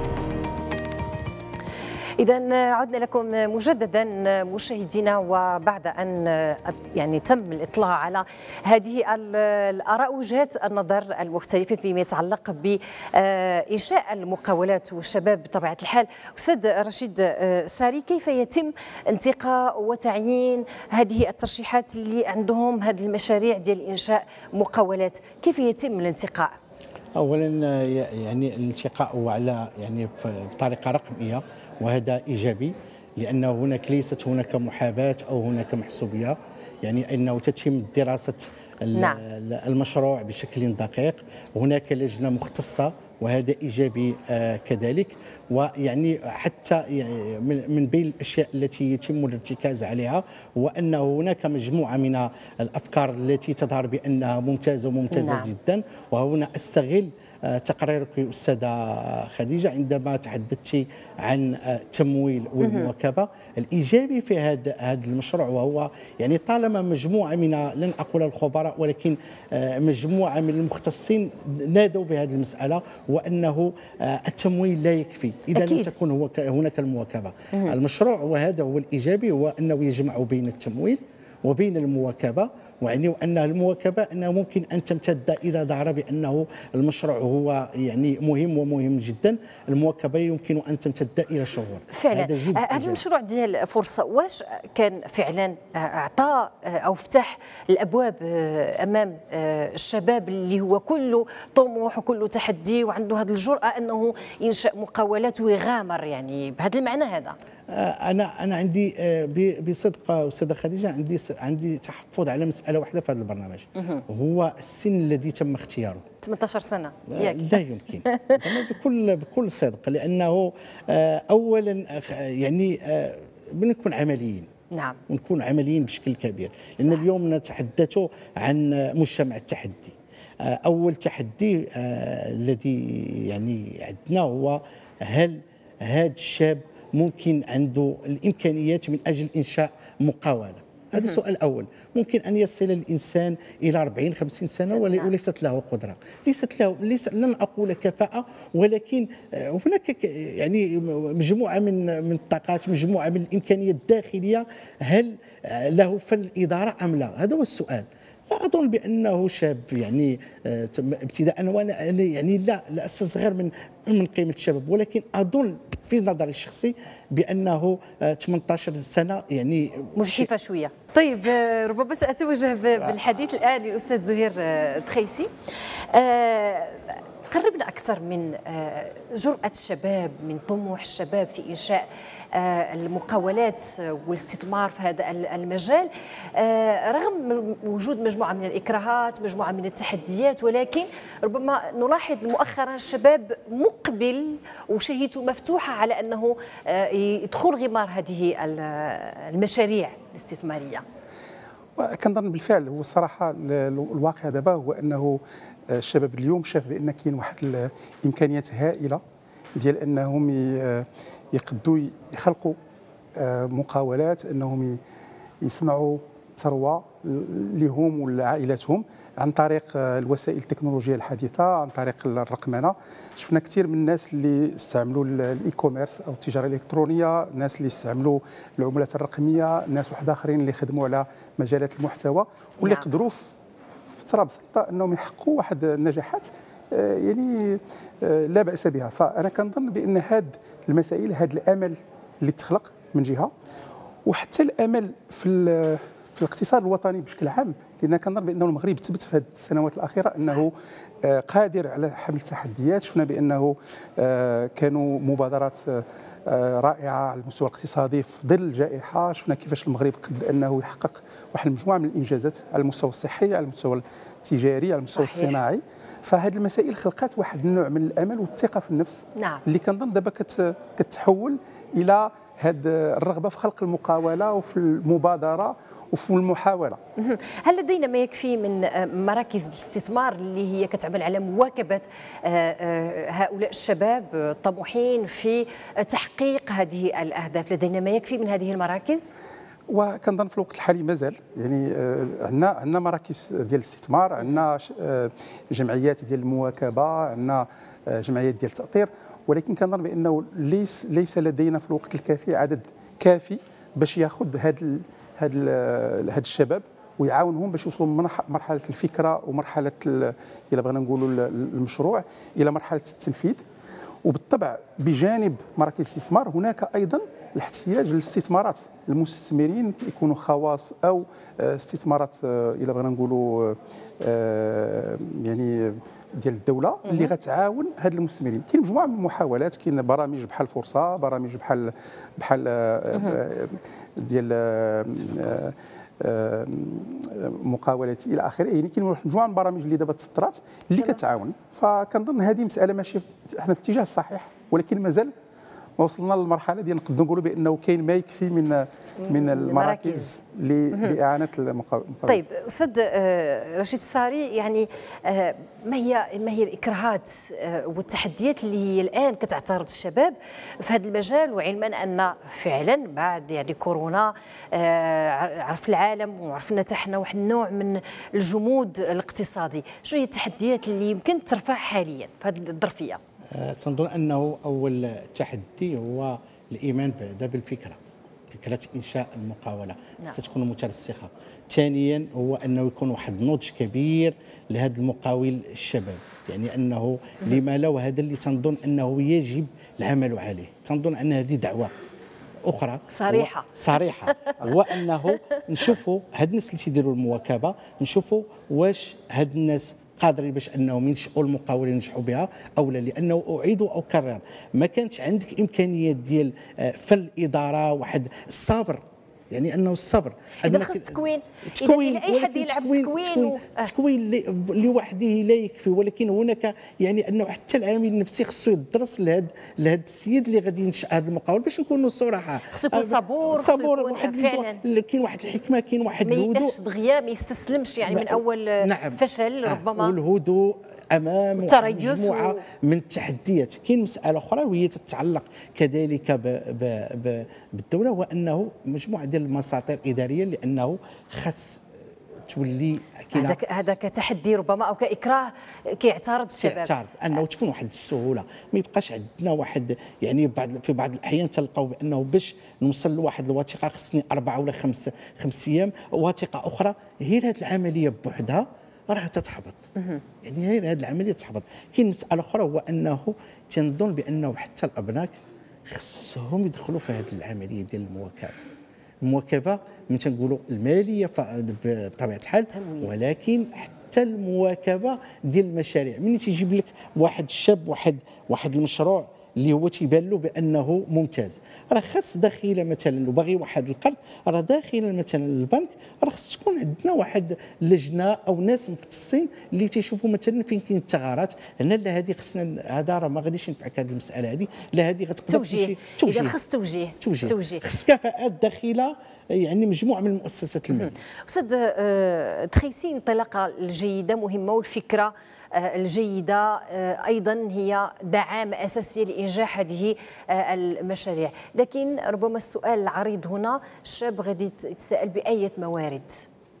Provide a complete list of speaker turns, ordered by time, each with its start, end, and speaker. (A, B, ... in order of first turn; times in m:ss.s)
0:02.2-0:26.5 A
0:27.1-1:33.0 B
0:38.9-0:39.2 A
0:55.1-0:55.5 A
1:02.6-1:02.9 A
1:15.5-1:15.9 A
1:31.9-1:47.4 A
1:47.7-1:56.0 B
1:53.8-1:54.0 A
1:56.2-1:58.4 A
1:57.1-2:04.5 B
2:04.7-2:05.0 A
2:05.1-2:50.3 B
2:24.7-2:25.1 A
2:50.0-3:20.8 A
3:21.8-3:29.0 C
3:29.6-3:32.6 C
3:33.2-3:34.8 C
3:35.4-3:53.3 C
3:52.6-3:52.9 A
3:54.0-4:03.3 C
4:04.0-4:10.5 C
4:10.2-4:10.4 A
4:11.0-4:36.8 C
4:24.8-4:25.4 A
4:29.1-4:29.4 A
4:37.0-4:49.1 A
4:49.7-5:13.4 C
5:14.0-5:45.1 C
5:26.9-5:27.1 A
5:45.8-5:52.2 C
5:49.0-5:50.2 A
5:52.1-6:13.0 A
6:13.3-6:17.8 B
6:18.3-6:31.7 B
6:32.4-7:06.6 B
6:32.9-6:34.8 A
6:50.4-6:53.7 A
7:02.5-7:04.6 A
7:06.0-7:09.9 A
7:07.8-7:21.6 B
7:11.4-7:12.4 A
7:22.2-7:23.4 B
7:23.1-7:27.2 A
7:26.4-7:39.6 B
7:39.8-7:40.0 A
7:40.2-7:45.1 B
7:45.7-7:48.4 B
7:49.0-8:16.4 B
7:52.5-7:52.9 A
8:15.3-8:17.6 A
8:17.0-8:21.0 B
8:20.7-8:36.2 A